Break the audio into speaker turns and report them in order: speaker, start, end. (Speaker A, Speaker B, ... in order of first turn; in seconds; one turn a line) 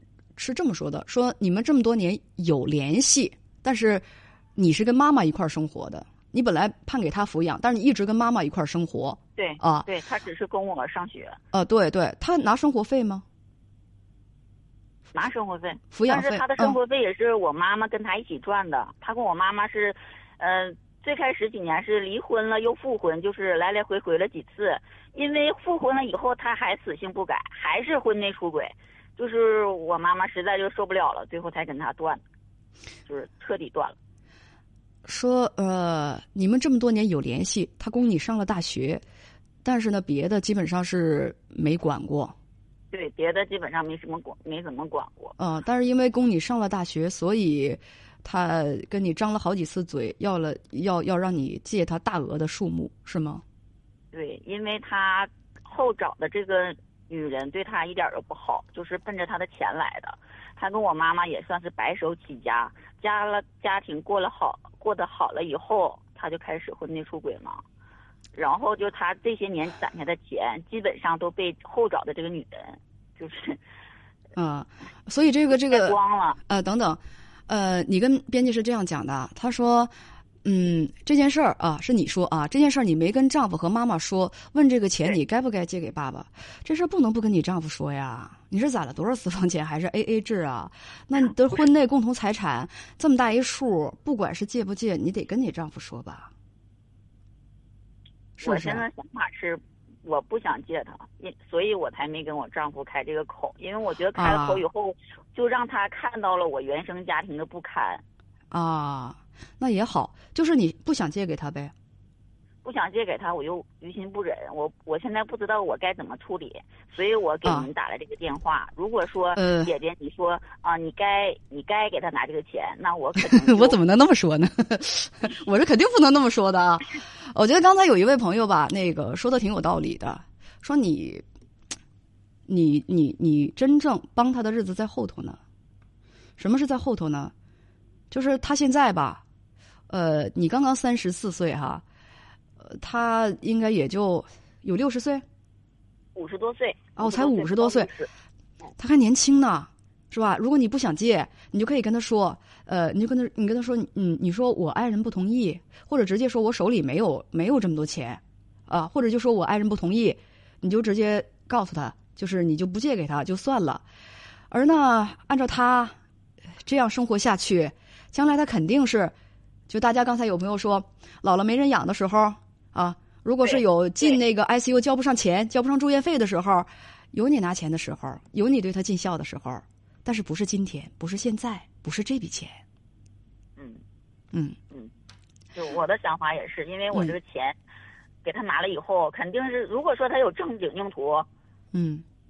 Speaker A: 0.4-9.9
Speaker B: 9.4-11.4
Speaker A: 11.5-13.2
Speaker B: 15.1-32.2
Speaker A: 15.9-16.8
Speaker B: 33.1-34.0
Speaker A: 35.0-39.0
Speaker A: 39.6-42.4
Speaker B: 42.9-45.3
Speaker A: 45.4-53.4
Speaker B: 54.1-67.6
Speaker B: 68.3-73.6
Speaker A: 74.4-76.0
Speaker B: 75.5-76.4
Speaker A: 76.5-79.9
Speaker A: 80.4-96.3
Speaker A: 98.4-98.8
Speaker B: 98.4-108.0
Speaker A: 104.2-104.7
Speaker A: 108.5-111.7
Speaker B: 112.6-123.8
Speaker A: 119.4-119.7
Speaker A: 123.3-131.2
Speaker A: 132.5-135.4
Speaker A: 136.4-137.3
Speaker A: 138.1-139.2
Speaker A: 139.9-141.8
Speaker A: 142.6-145.2
Speaker B: 146.2-148.1
Speaker A: 147.0-147.9
Speaker A: 148.8-163.8
Speaker A: 164.5-166.0
Speaker A: 166.6-169.1
Speaker A: 169.7-182.6
Speaker B: 173.4-174.2
Speaker B: 185.5-187.6
Speaker B: 188.2-191.3
Speaker A: 191.7-192.1